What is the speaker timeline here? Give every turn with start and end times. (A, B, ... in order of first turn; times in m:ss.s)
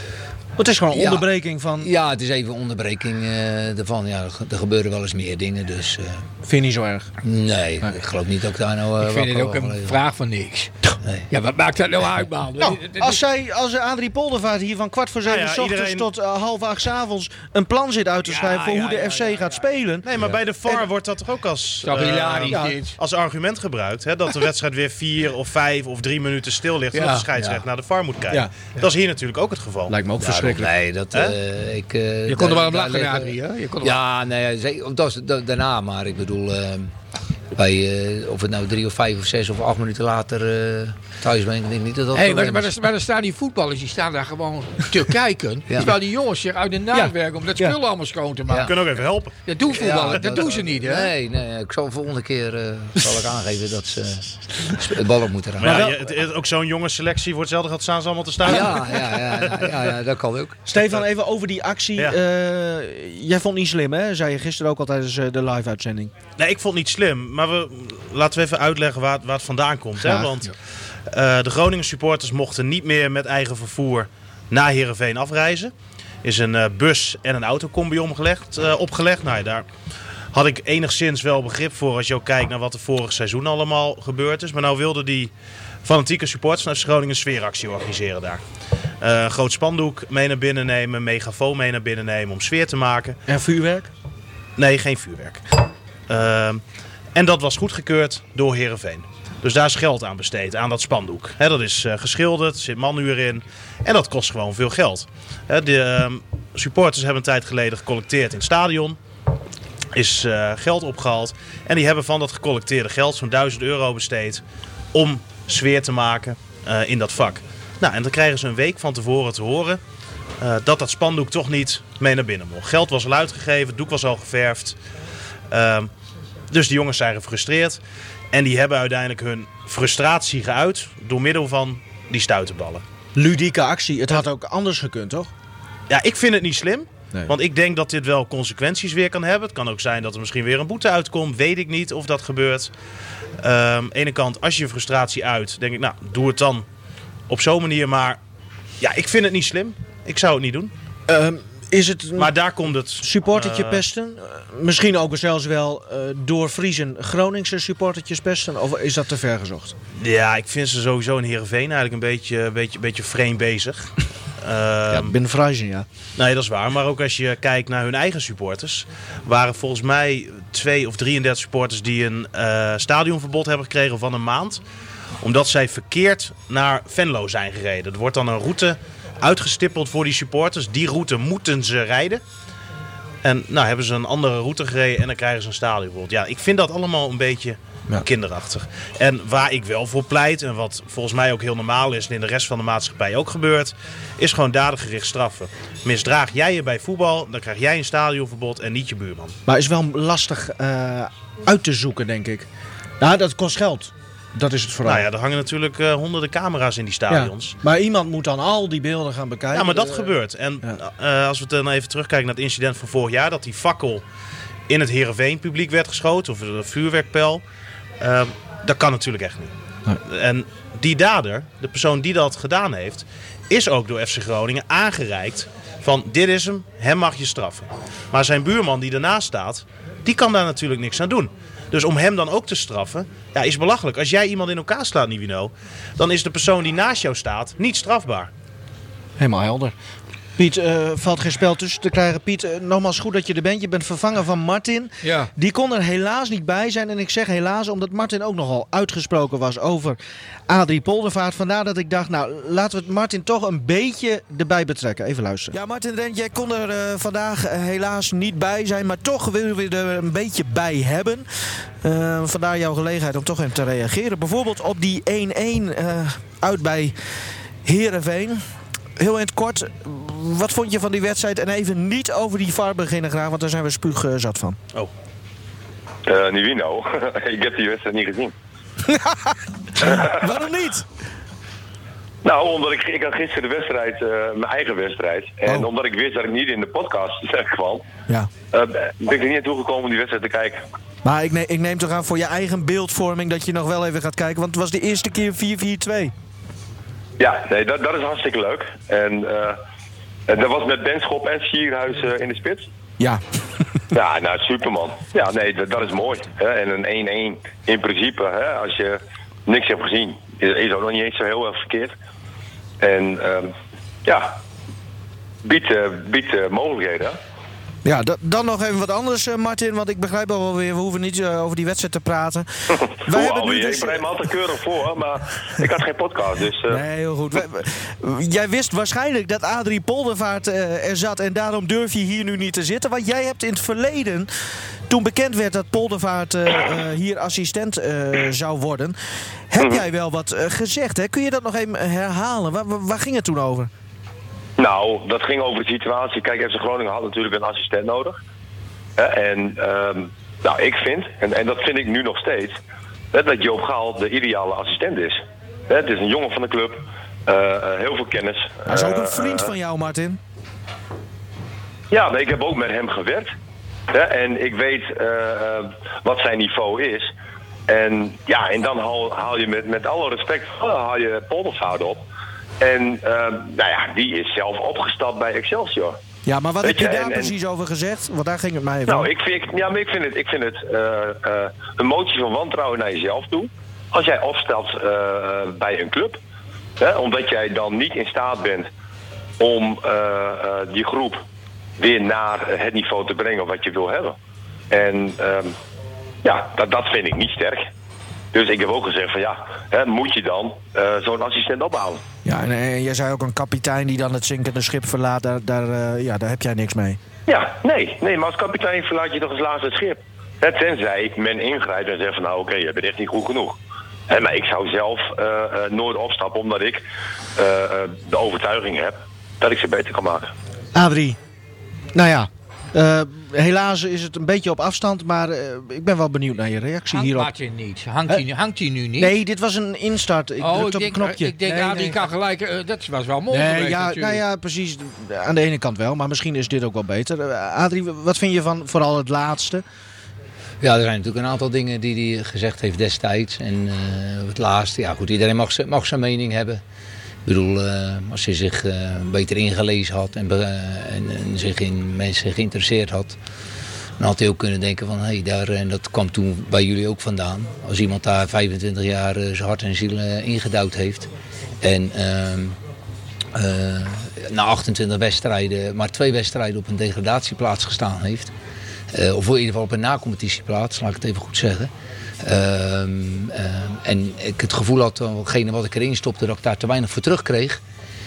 0:00.6-0:01.9 A
0:00.9-0:06.2 B
0:06.4-0:07.1 A
0:07.2-0:10.0 B
0:09.0-0:13.2 C
0:12.6-0:20.0 A
0:15.2-0:16.1 D
0:18.2-0:19.6 C
0:20.0-0:30.0 D
0:21.8-0:23.0 C
0:22.5-0:22.7 A
0:26.9-0:27.3 C
0:27.3-0:27.6 B
0:29.9-0:30.7 A
0:30.2-0:36.9 B
0:32.3-0:34.0 C
0:37.5-0:42.7 B
0:42.1-0:48.7 C
0:45.7-0:45.9 B
0:46.9-0:47.8 A
0:48.5-0:48.8 B
0:48.6-0:49.4 D
0:49.4-0:51.1 C
0:49.7-0:56.0 B
0:55.6-0:59.8 D
0:55.6-0:56.0 A
0:58.4-1:00.6 B
1:00.7-1:06.1 A
1:06.4-1:10.5 D
1:10.0-1:10.3 A
1:11.1-1:15.7 D
1:16.2-1:19.6 D
1:20.3-1:25.3 D
1:25.8-1:28.4 D
1:29.0-1:33.2 D
1:33.3-1:33.9 A
1:34.6-1:35.4 D
1:36.1-1:36.6 D
1:37.1-1:49.0 D
1:49.9-1:54.4 D
1:54.9-1:59.8 D
2:00.4-2:04.8 D
2:05.5-2:05.9 D
2:06.5-2:07.8 D
2:08.3-2:12.8 D
2:13.1-2:15.3 A
2:15.9-2:22.7 D
2:23.4-2:26.6 D
2:27.3-2:28.2 D
2:28.8-2:30.7 D
2:31.1-2:32.3 A
2:32.2-2:33.8 D
2:33.0-2:39.7 A
2:40.0-2:45.2 D
2:44.9-2:45.9 A
2:46.2-2:54.6 D
2:55.2-3:02.2 D
3:03.2-3:19.3 D
3:19.4-3:22.4 A
3:23.0-3:25.1 A
3:24.8-3:27.6 D
3:27.1-3:30.8 A
3:29.5-3:34.0 D
3:34.7-3:37.4 D
3:38.0-3:39.5 D
3:40.0-3:58.3 D
3:59.2-3:59.7 A
4:00.4-4:10.0 A
4:05.0-4:05.3 C
4:10.5-4:21.2 A
4:21.8-4:26.9 A
4:27.6-4:28.4 A
4:29.0-4:34.6 A
4:36.0-4:38.3 E
4:38.9-4:40.8 A
4:42.2-4:47.8 E
4:48.5-4:50.6 E
4:51.0-4:56.1 A
4:57.2-4:59.6 E
5:00.3-5:02.7 E
5:03.9-5:11.9 E
5:12.8-5:13.5 E
5:14.0-5:14.4 E
5:15.4-5:17.2 E
5:17.8-5:22.4 A
5:23.0-5:24.2 A
5:23.0-5:26.8 E
5:26.7-5:34.3 A
5:34.9-5:38.9 A
5:39.5-5:43.7 A
5:44.6-5:48.2 E
5:49.0-5:52.6 E
5:53.1-5:59.5 E
5:58.6-6:00.2 A
6:01.9-6:03.3 E
6:03.9-6:07.1 E
6:07.7-6:12.0 E
6:12.6-6:16.0 E
6:16.2-6:19.1 A
6:16.6-6:17.3 E
6:18.9-6:26.2 E
6:26.8-6:28.7 E
6:29.4-6:31.2 E
6:31.8-6:34.2 E
6:34.7-6:35.5 E
6:36.2-6:37.7 E
6:38.3-6:42.0 E
6:42.2-6:47.0 A
6:47.3-6:53.6 E
6:54.1-6:56.8 E
6:57.4-7:00.3 E
7:00.7-7:01.2 A
7:01.9-7:07.3 A
7:06.9-7:09.2 C
7:09.0-7:12.0 A
7:10.4-7:14.2 C
7:13.3-7:19.6 A
7:20.6-7:26.6 B
7:27.2-7:33.2 B
7:34.0-7:41.1 B
7:41.6-7:42.6 B
7:43.3-7:48.3 B
7:48.9-7:51.7 B
7:52.2-7:57.6 B